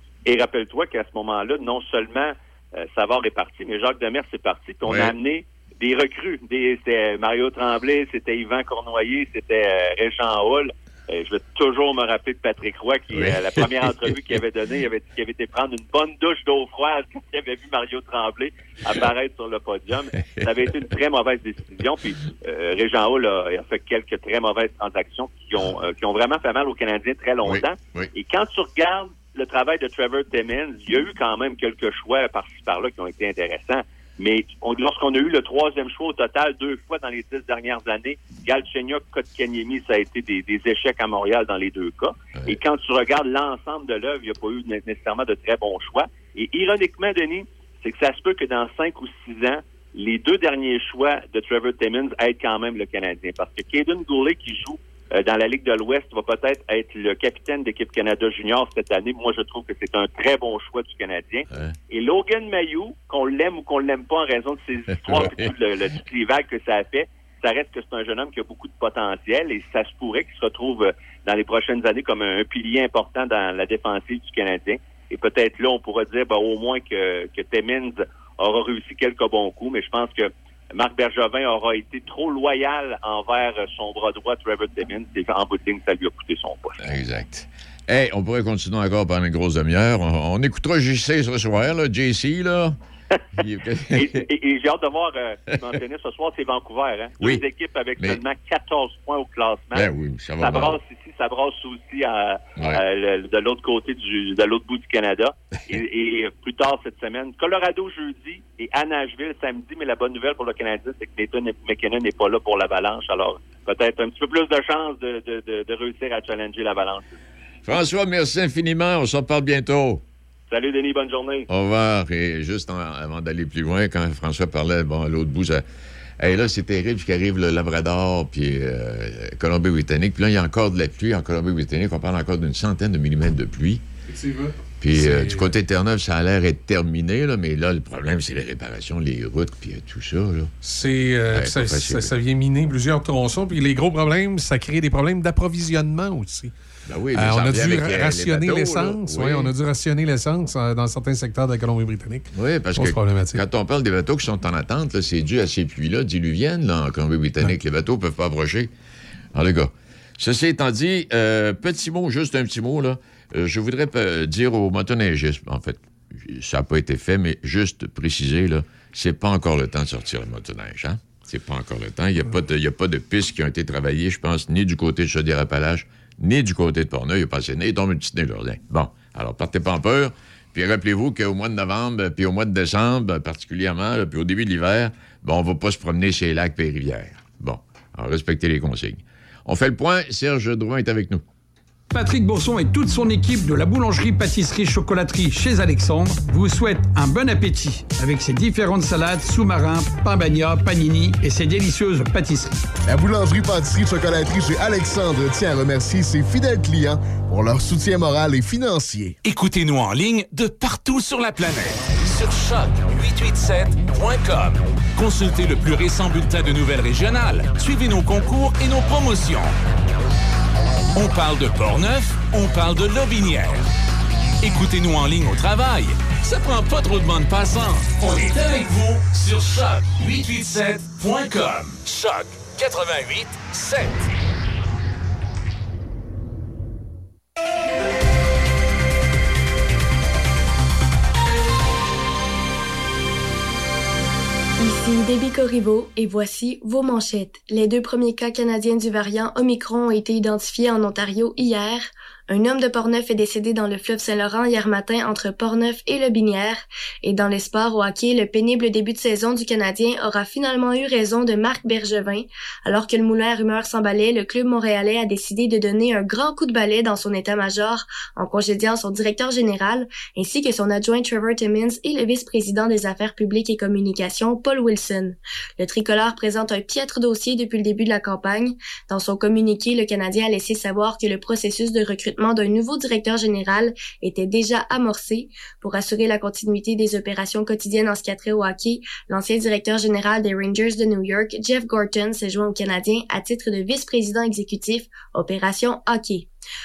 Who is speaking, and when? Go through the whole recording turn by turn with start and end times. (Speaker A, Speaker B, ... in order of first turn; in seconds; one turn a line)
Speaker A: 0.3-86.8
Speaker B: 4.8-5.2
Speaker B: 13.1-14.1
Speaker B: 27.4-28.1
Speaker B: 65.1-65.4
Speaker B: 86.8-92.8
Speaker B: 93.3-94.2
Speaker A: 93.9-99.9
Speaker B: 99.7-100.8
Speaker A: 100.4-117.2
Speaker B: 117.7-120.0
Speaker A: 120.5-121.5
Speaker B: 121.5-125.6
Speaker B: 126.2-133.8
Speaker C: 134.1-135.5
Speaker B: 134.8-140.5
Speaker C: 140.6-146.5
Speaker B: 141.3-142.1
Speaker B: 146.9-149.5
Speaker C: 147.1-153.4
Speaker B: 152.3-158.7
Speaker B: 159.3-191.2
Speaker D: 191.9-202.5
Speaker E: 202.9-209.2
Speaker F: 209.2-219.5
Speaker F: 220.9-223.7
Speaker F: 224.4-234.1
Speaker G: 244.6-296.3